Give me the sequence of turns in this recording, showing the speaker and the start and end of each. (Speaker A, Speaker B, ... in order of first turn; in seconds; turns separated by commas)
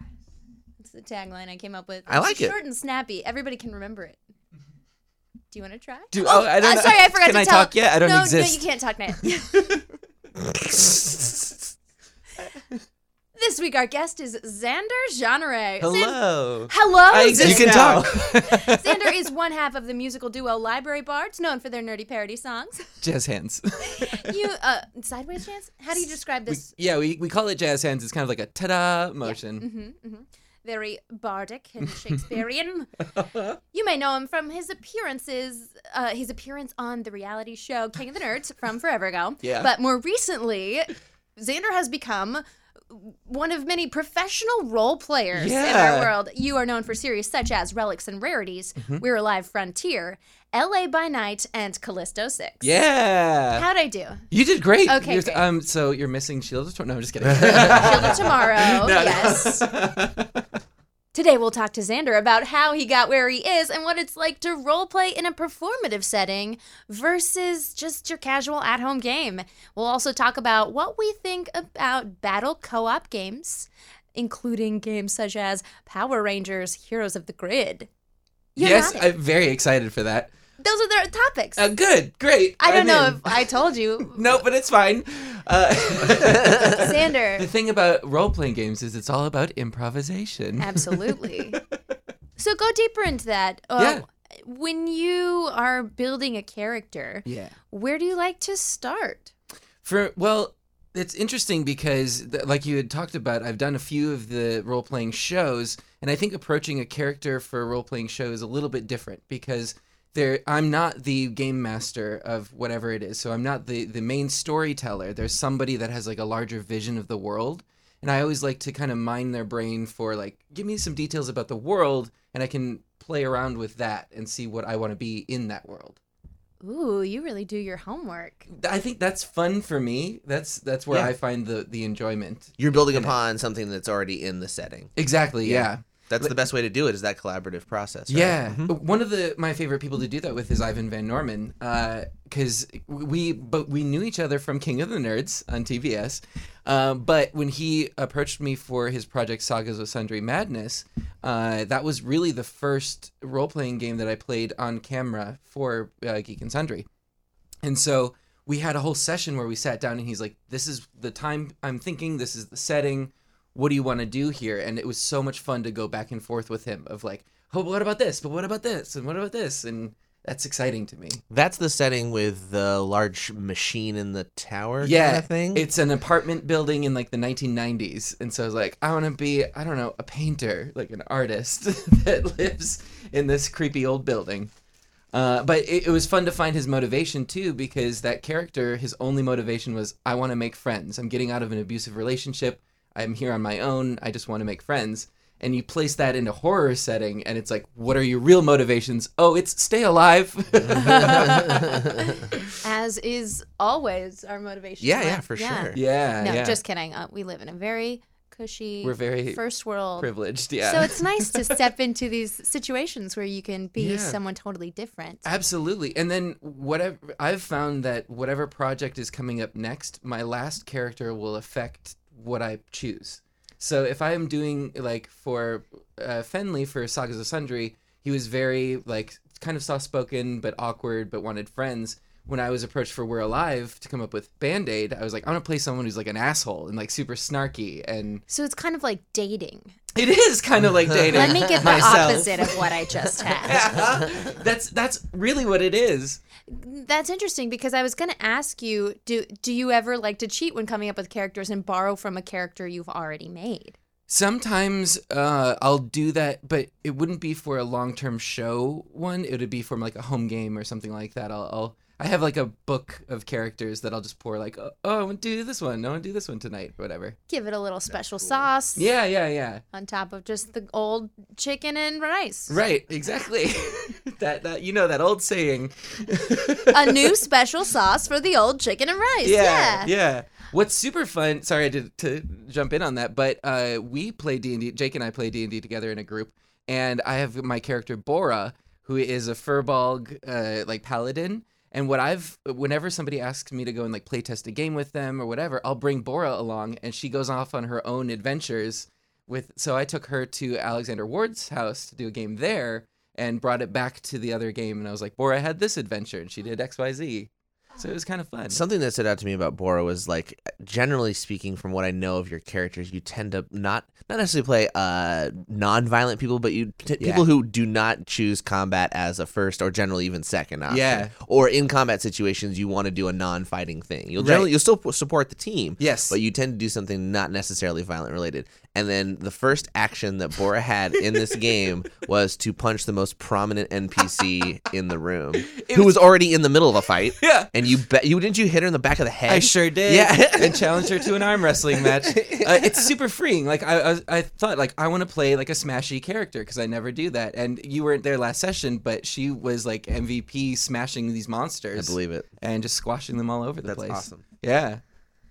Speaker A: 0.8-4.2, Speaker B: 2.1-2.5, Speaker A: 5.5-9.5, Speaker C: 6.1-8.6, Speaker C: 9.2-9.8, Speaker C: 10.8-11.4, Speaker A: 13.3-23.0, Speaker B: 15.8-16.7, Speaker C: 15.8-16.4, Speaker C: 17.1-19.1, Speaker B: 17.3-18.1, Speaker C: 23.0-24.4, Speaker A: 23.8-26.7, Speaker C: 26.0-29.6, Speaker A: 29.2-33.0, Speaker C: 33.1-33.6, Speaker A: 33.7-52.7, Speaker C: 39.4-39.7, Speaker C: 45.3-46.1, Speaker C: 48.8-49.0, Speaker C: 52.6-53.6, Speaker A: 53.5-54.3, Speaker C: 54.3-60.4, Speaker A: 54.9-55.4, Speaker A: 57.4-59.7, Speaker A: 61.1-77.9, Speaker A: 78.5-79.1, Speaker C: 78.6-80.3, Speaker A: 80.6-81.7, Speaker C: 81.5-91.6, Speaker A: 82.6-84.4, Speaker A: 86.4-87.5, Speaker A: 90.6-91.6, Speaker A: 92.4-99.3, Speaker C: 93.8-94.0, Speaker C: 97.2-97.5, Speaker C: 99.8-126.0, Speaker A: 126.6-128.5, Speaker C: 128.5-133.1, Speaker B: 132.6-138.7, Speaker C: 134.9-136.3, Speaker C: 138.1-156.8, Speaker C: 157.6-171.2, Speaker B: 171.3-175.7, Speaker C: 174.8-184.5, Speaker C: 185.1-201.8, Speaker B: 200.6-202.2, Speaker A: 200.9-201.4, Speaker A: 202.5-210.1, Speaker B: 204.8-205.8, Speaker C: 205.7-206.6, Speaker C: 208.8-209.4, Speaker C: 210.0-211.7, Speaker A: 210.6-215.2, Speaker C: 213.8-214.2, Speaker C: 215.2-238.2, Speaker A: 238.3-239.7, Speaker C: 239.9-246.2, Speaker B: 240.9-241.9, Speaker A: 241.1-243.6, Speaker B: 243.5-244.4, Speaker A: 246.5-253.8, Speaker C: 254.1-267.2, Speaker A: 267.3-268.9, Speaker C: 268.8-269.6, Speaker A: 269.7-272.6, Speaker C: 272.5-277.2, Speaker A: 276.7-279.9, Speaker C: 279.2-308.6, Speaker B: 308.5-341.1, Speaker C: 317.0-317.2, Speaker C: 320.7-321.1, Speaker C: 324.2-324.5, Speaker C: 325.8-326.2, Speaker C: 331.1-331.4, Speaker C: 335.5-335.9, Speaker C: 337.2-337.5, Speaker C: 339.3-354.8, Speaker B: 341.8-342.7, Speaker B: 351.7-352.3, Speaker B: 353.6-354.2